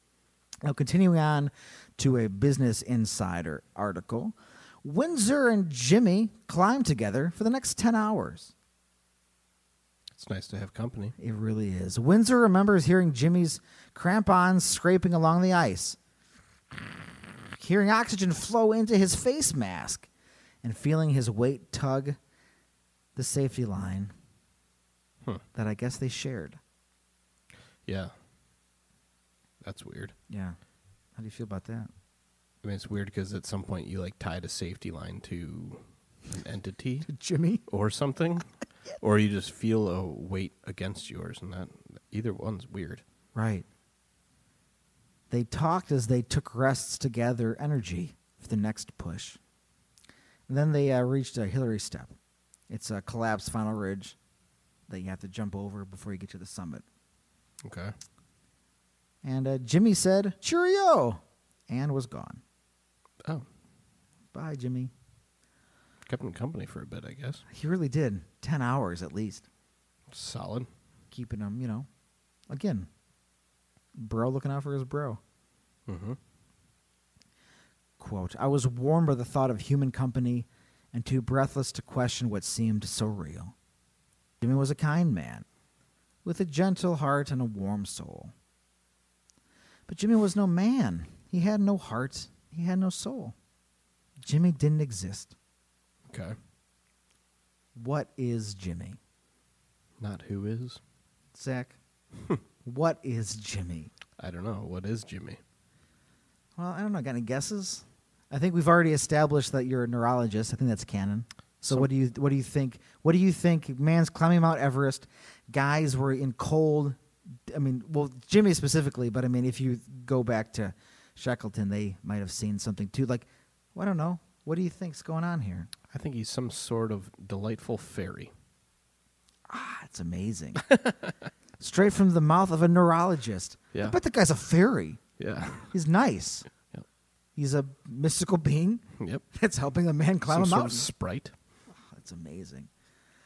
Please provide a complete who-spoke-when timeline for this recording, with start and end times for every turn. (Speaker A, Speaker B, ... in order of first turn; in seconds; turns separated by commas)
Speaker A: 0.6-8.5, Speaker B: 10.1-11.2, Speaker A: 11.2-16.0, Speaker A: 17.6-20.1, Speaker A: 20.6-22.2, Speaker A: 23.2-24.1, Speaker A: 25.5-26.6, Speaker B: 27.9-28.1, Speaker B: 29.6-30.1, Speaker A: 30.3-30.6, Speaker A: 31.2-31.9, Speaker B: 32.6-37.1, Speaker A: 37.1-37.6, Speaker B: 37.7-43.0, Speaker A: 43.4-43.6, Speaker A: 45.3-49.4, Speaker A: 50.5-52.1, Speaker A: 52.7-54.2, Speaker A: 54.9-56.9, Speaker B: 57.6-58.0, Speaker A: 59.2-62.4, Speaker A: 64.3-64.9, Speaker B: 66.1-67.4, Speaker A: 67.5-69.5, Speaker B: 70.1-70.7, Speaker A: 71.1-71.9, Speaker A: 72.5-72.9, Speaker A: 74.0-75.2, Speaker B: 75.9-76.2, Speaker A: 78.0-83.5, Speaker A: 84.4-85.5, Speaker A: 86.2-88.3, Speaker A: 89.9-93.3, Speaker A: 94.2-95.3, Speaker B: 96.1-96.4, Speaker A: 97.8-99.0, Speaker B: 100.0-100.8, Speaker A: 101.3-101.8, Speaker A: 102.7-103.9, Speaker B: 104.2-105.4, Speaker A: 106.6-125.7, Speaker B: 125.9-128.3, Speaker A: 129.5-130.7, Speaker B: 130.6-131.3, Speaker A: 131.6-135.0, Speaker B: 135.2-135.7, Speaker A: 135.7-136.5, Speaker A: 137.4-140.9, Speaker B: 139.0-139.2, Speaker B: 140.3-141.3, Speaker A: 141.8-142.7